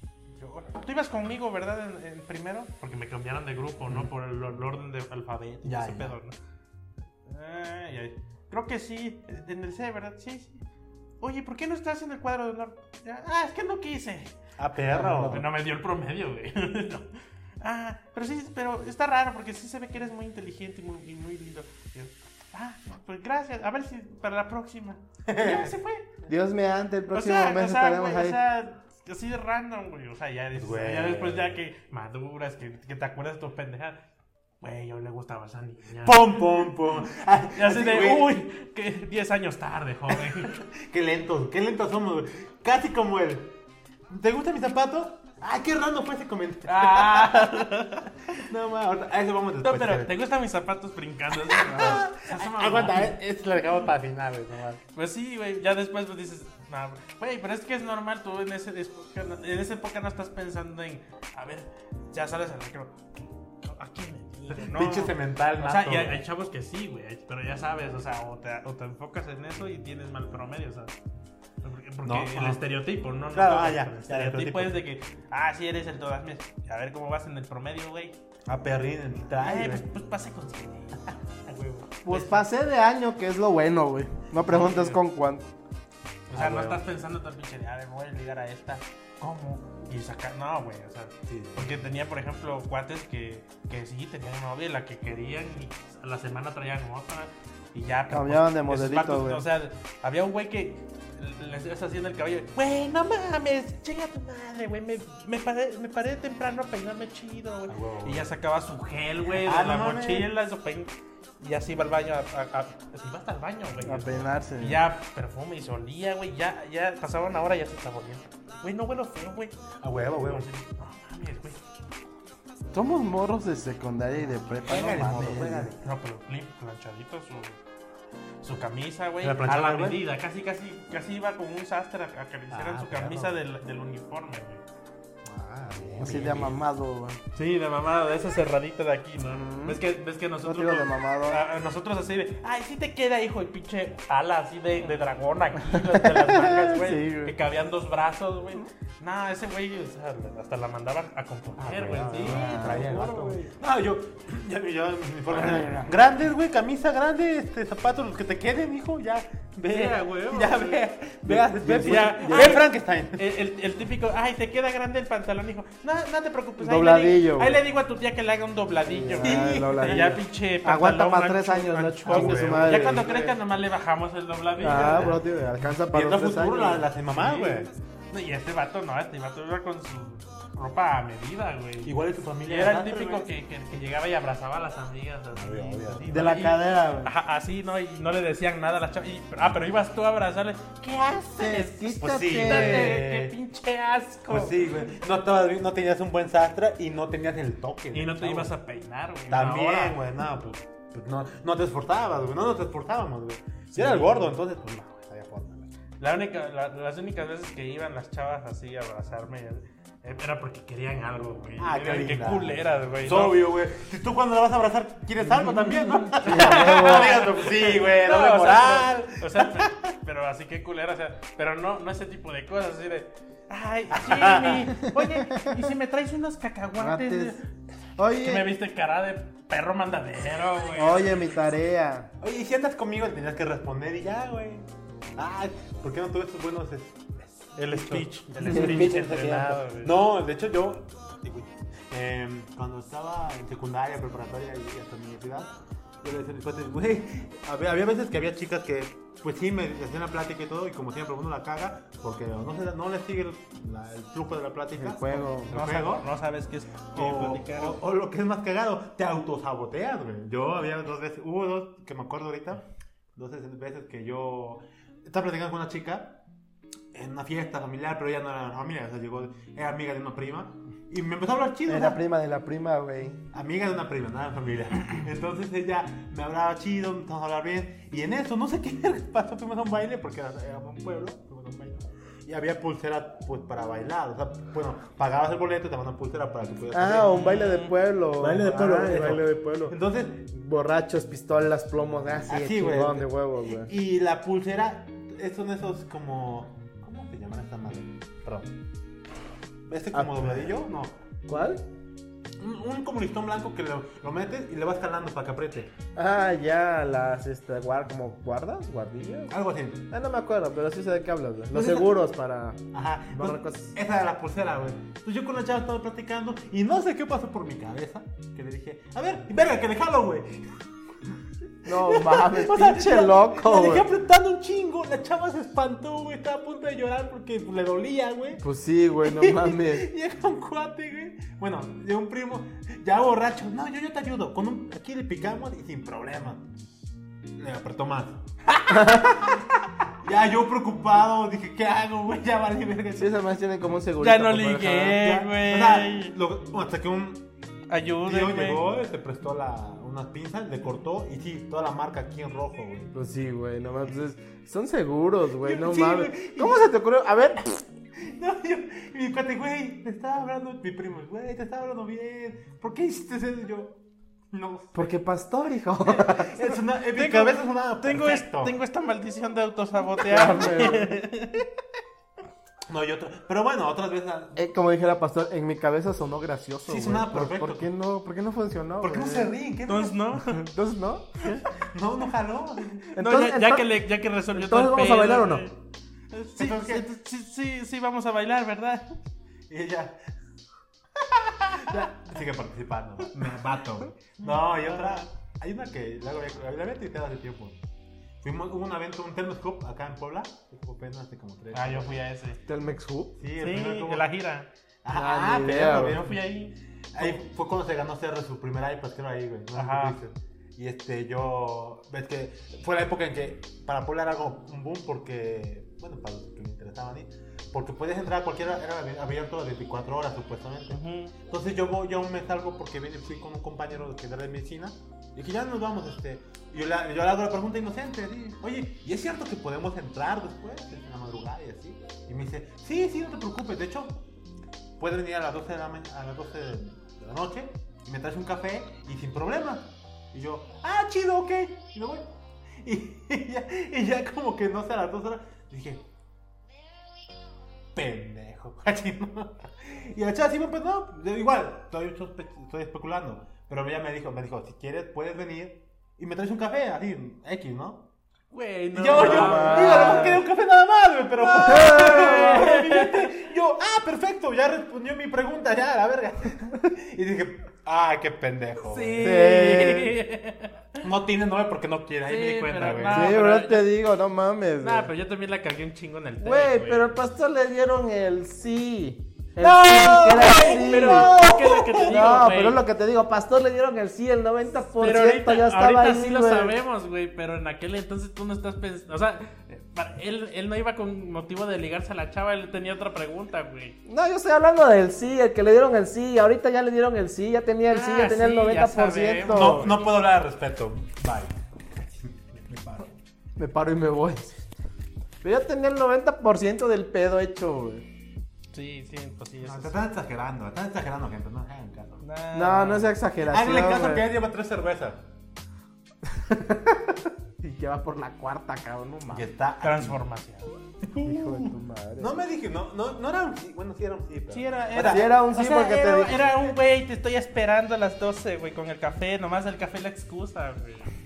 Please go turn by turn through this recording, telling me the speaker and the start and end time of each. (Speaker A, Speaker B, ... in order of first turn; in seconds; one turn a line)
Speaker A: 0.4-6.3
Speaker B: 5.6-6.1
Speaker A: 7.2-10.6
Speaker A: 11.2-14.3
Speaker B: 14.6-15.4
Speaker A: 14.9-17.1
Speaker A: 17.6-26.2
Speaker B: 25.3-25.7
Speaker C: 26.3-28.4
Speaker A: 27.1-34.0
Speaker B: 30.5-31.6
Speaker A: 34.6-36.4
Speaker B: 36.0-38.4
Speaker A: 37.5-40.6
Speaker B: 40.1-43.5
Speaker B: 44.1-47.7
Speaker A: 46.7-48.4
Speaker B: 48.3-50.1
Speaker A: 49.6-53.1
Speaker B: 51.5-54.8
Speaker A: 54.9-63.0
Speaker A: 63.6-70.9
Speaker B: 64.5-66.2
Speaker A: 71.6-78.2
Speaker B: 72.0-72.6
Speaker B: 73.3-74.8
Speaker B: 78.5-79.8
Speaker A: 79.4-81.1
Speaker B: 81.5-81.9
Speaker C: 82.0-85.5
Speaker A: 82.1-82.4
Speaker A: 84.5-84.9
Speaker B: 84.5-84.9
Speaker A: 86.3-119.5
Speaker B: 86.3-86.8
Speaker B: 91.3-91.7
Speaker C: 98.1-99.4
Speaker B: 107.7-108.3
Speaker B: 109.3-110.3
Speaker C: 113.8-114.8
Speaker B: 119.8-120.5
Speaker A: 120.2-121.6
Speaker C: 122.7-125.7
Speaker B: 124.6-125.8
Speaker A: 125.8-127.6
Speaker A: 128.4-134.6
Speaker B: 129.2-130.0
Speaker B: 132.5-133.4
Speaker B: 135.2-136.6
Speaker C: 136.0-137.2
Speaker A: 137.3-153.5
Speaker C: 139.2-139.8
Speaker C: 140.4-141.4
Speaker C: 145.7-147.3
Speaker B: 151.6-163.3
Speaker C: 152.2-153.0
Speaker A: 155.4-155.9
Speaker A: 159.7-160.8
Speaker C: 161.2-162.6
Speaker A: 161.6-175.2
Speaker C: 166.6-167.6
Speaker C: 168.8-173.1
Speaker B: 169.2-170.2
Speaker B: 172.1-173.4
Speaker B: 174.6-177.7
Speaker C: 174.6-176.9
Speaker A: 177.1-181.9
Speaker B: 181.8-183.3
Speaker A: 182.4-194.7
Speaker B: 185.3-186.4
Speaker C: 186.1-187.1
Speaker C: 191.3-193.0
Speaker B: 192.0-193.3
Speaker B: 194.3-198.5
Speaker A: 197.9-200.0
Speaker B: 199.3-205.7
Speaker A: 203.7-204.3
Speaker A: 206.0-213.4
Speaker B: 211.6-219.9
Speaker C: 215.5-217.2
Speaker A: 215.6-227.4
Speaker B: 223.9-224.7
Speaker C: 224.9-225.4
Speaker C: 226.8-227.4
Speaker C: 228.0-228.5
Speaker A: 228.2-231.3
Speaker C: 230.7-232.1
Speaker B: 232.2-234.6
Speaker B: 235.2-256.1
Speaker A: 237.6-239.9
Speaker C: 238.4-238.8
Speaker C: 254.7-255.6
Speaker A: 255.5-257.8
Speaker B: 256.9-262.6
Speaker B: 263.1-266.2
Speaker B: 266.9-272.0
Speaker C: 271.7-273.2
Speaker B: 273.3-287.4
Speaker C: 286.7-289.8
Speaker A: 287.1-287.7
Speaker B: 288.2-290.3
Speaker C: 290.3-293.7
Speaker B: 292.3-293.1
Speaker B: 293.6-298.5
Speaker B: 299.7-300.9
Speaker C: 299.9-300.5
Speaker C: 301.3-301.6
Speaker B: 302.4-305.7
Speaker C: 305.9-309.3
Speaker B: 309.3-309.8
Speaker C: 309.9-312.6
Speaker B: 311.5-311.9
Speaker B: 312.7-321.1
Speaker C: 313.1-313.8
Speaker C: 321.6-323.9
Speaker B: 321.6-328.4
Speaker C: 328.4-329.9
Speaker B: 329.0-336.6
Speaker B: 337.4-338.2
Speaker C: 338.7-339.4
Speaker B: 340.0-343.2
Speaker C: 342.9-345.0
Speaker A: 344.0-346.1
Speaker B: 344.8-347.2
Speaker A: 347.7-348.6
Speaker B: 348.0-352.9
Speaker C: 352.9-357.6
Speaker B: 355.4-356.7
Speaker B: 358.0-363.8
Speaker B: 364.3-364.8
Speaker C: 364.7-366.6
Speaker B: 365.8-368.5
Speaker A: 366.9-371.4
Speaker C: 370.0-370.9
Speaker B: 372.7-374.4
Speaker C: 374.4-379.4
Speaker B: 376.7-377.7
Speaker B: 378.8-380.0
Speaker A: 379.7-380.4
Speaker C: 380.3-381.4
Speaker B: 381.6-382.8
Speaker A: 382.9-385.5
Speaker C: 382.9-383.7
Speaker C: 384.3-385.5
Speaker A: 386.1-389.0
Speaker B: 386.4-386.9
Speaker B: 389.5-390.0
Speaker B: 391.1-397.6
Speaker A: 394.2-395.0
Speaker B: 398.2-402.0
Speaker A: 401.5-402.4
Speaker C: 402.4-403.1
Speaker B: 403.2-404.1
Speaker A: 403.4-404.5
Speaker B: 404.8-406.2
Speaker C: 404.9-406.0
Speaker A: 405.9-407.2
Speaker B: 406.9-434.0
Speaker A: 409.5-410.0
Speaker A: 420.7-421.1
Speaker B: 434.8-442.1
Speaker B: 442.6-445.8
Speaker B: 447.7-457.9
Speaker A: 458.3-460.2
Speaker B: 458.7-469.1
Speaker C: 458.9-460.2
Speaker A: 461.2-463.2
Speaker C: 461.4-462.5
Speaker A: 468.6-470.8
Speaker C: 469.0-469.9
Speaker B: 470.8-473.1
Speaker A: 472.1-473.7
Speaker C: 472.9-474.9
Speaker A: 474.6-476.9
Speaker C: 476.2-481.1
Speaker B: 479.4-482.0
Speaker A: 479.8-482.6
Speaker C: 481.8-486.6
Speaker A: 484.7-493.8
Speaker C: 493.8-499.7
Speaker A: 497.7-499.8
Speaker B: 499.3-501.4
Speaker B: 502.1-502.9
Speaker C: 503.4-504.4
Speaker C: 505.2-507.9
Speaker A: 508.5-509.8
Speaker B: 509.4-512.0
Speaker A: 512.0-512.9
Speaker C: 512.3-514.1
Speaker B: 513.2-515.0
Speaker C: 516.0-519.3
Speaker B: 519.1-520.0
Speaker A: 519.6-520.5
Speaker B: 520.8-525.1
Speaker C: 521.0-522.2
Speaker A: 524.3-530.9
Speaker C: 524.8-526.3